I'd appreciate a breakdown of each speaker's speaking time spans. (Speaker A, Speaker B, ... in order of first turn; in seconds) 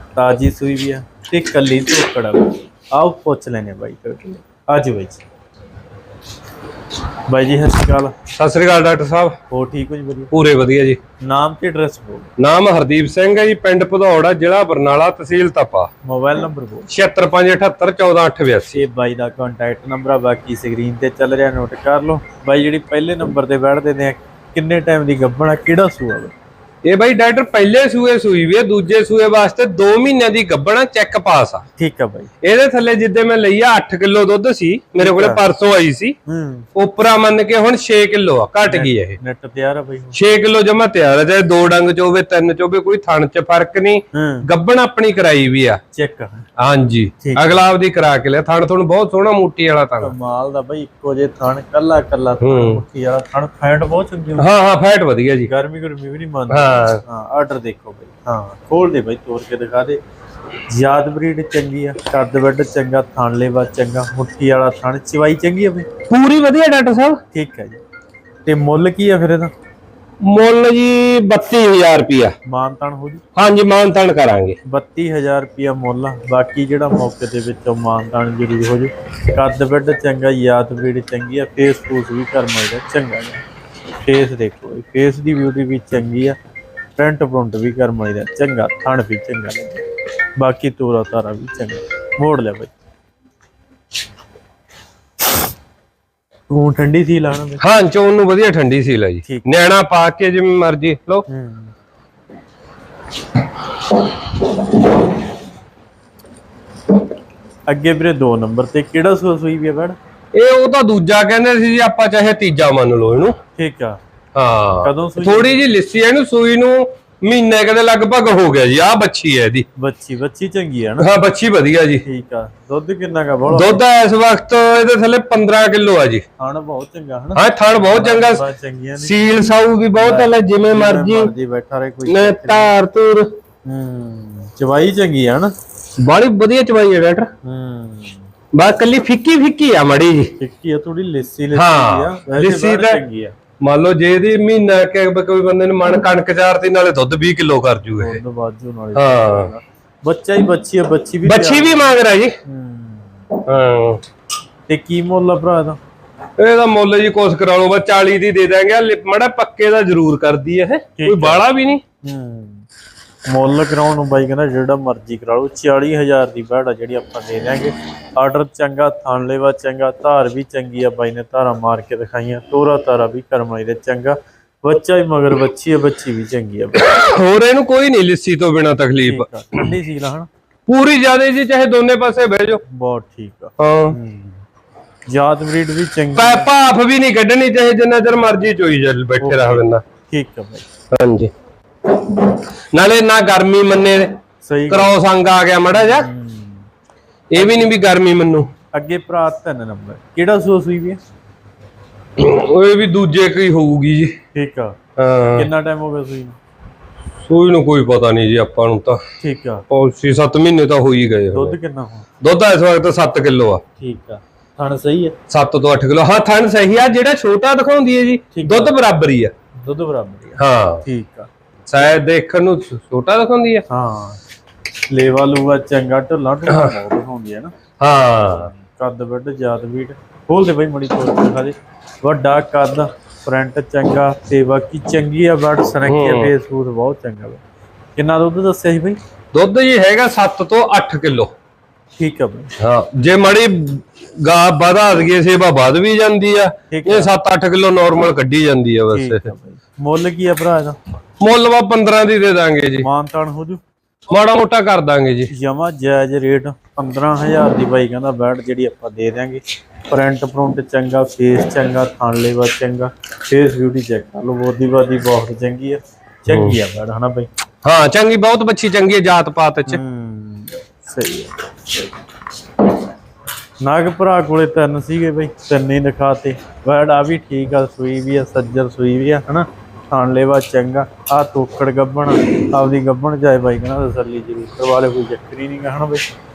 Speaker A: 0.1-5.2, 7.3-8.2, 9.5-10.3, 11.2-12.3, 16.1-16.9, 18.7-26.3, 31.8-32.3, 35.0-35.5, 36.3-36.7, 38.7-40.2, 44.1-44.5, 45.9-46.5, 47.2-47.6, 50.0-54.5, 55.4-60.0, 60.7-65.9, 67.3-67.8, 68.5-69.5, 72.5-73.2, 74.7-83.4, 84.0-86.4, 87.0-89.8, 90.4-92.7, 96.5-97.6, 101.3-101.7, 107.7-110.0, 113.6-114.0, 114.8-115.6, 119.8-121.1, 122.0-123.8, 126.4-129.2, 129.9-132.7, 133.7-135.5, 137.4-138.3, 140.4-143.4, 148.0-151.9, 152.4-153.2, 154.7-155.8, 161.0-161.4, 162.0-162.7, 163.3-176.8, 179.0-180.3, 182.7-184.4, 185.1-186.5, 189.2-190.7, 194.4-194.9, 195.8-196.7, 197.4-197.8, 198.7-201.0, 204.3-204.8, 205.3-206.4, 209.2-209.7, 211.3-212.1, 213.8-215.2, 218.3-218.8, 219.6-221.3, 223.7-224.2, 224.9-227.5, 228.4-237.4, 237.9-239.0, 242.0-242.5, 246.7-247.1, 248.9-250.8, 252.8-253.6, 255.3-267.3, 269.7-271.3, 273.6-286.0
Speaker B: 8.3-9.3, 10.3-11.0, 12.4-15.9, 16.9-18.8, 26.8-31.6, 32.4-36.2, 36.8-39.2, 40.1-45.8, 46.6-50.1, 52.4-52.8, 54.4-55.5, 56.5-57.0, 66.1-67.2, 70.2-72.3, 73.4-74.6, 97.6-101.2, 110.3-113.3, 114.3-119.7, 121.0-122.0, 123.5-126.2, 127.4-128.4, 129.0-131.3, 132.1-133.3, 136.0-137.3, 138.5-140.3, 141.5-143.0, 143.6-148.2, 148.9-149.5, 151.2-152.4, 153.4-154.0, 156.4-161.8, 176.8-179.7, 180.7-182.6, 183.6-184.0, 186.2-189.8, 190.9-191.3, 191.9-194.2, 194.7-196.1, 197.3-198.5, 202.2-204.1, 205.0-205.5, 207.2-209.0, 209.7-211.6, 212.2-213.6, 215.3-219.3, 220.4-220.8, 221.7-223.6, 226.5-226.8, 227.8-228.5, 235.8-236.3, 239.3-241.3, 242.6-249.3, 251.2-252.9, 254.1-255.3, 266.3-266.6, 267.6-269.8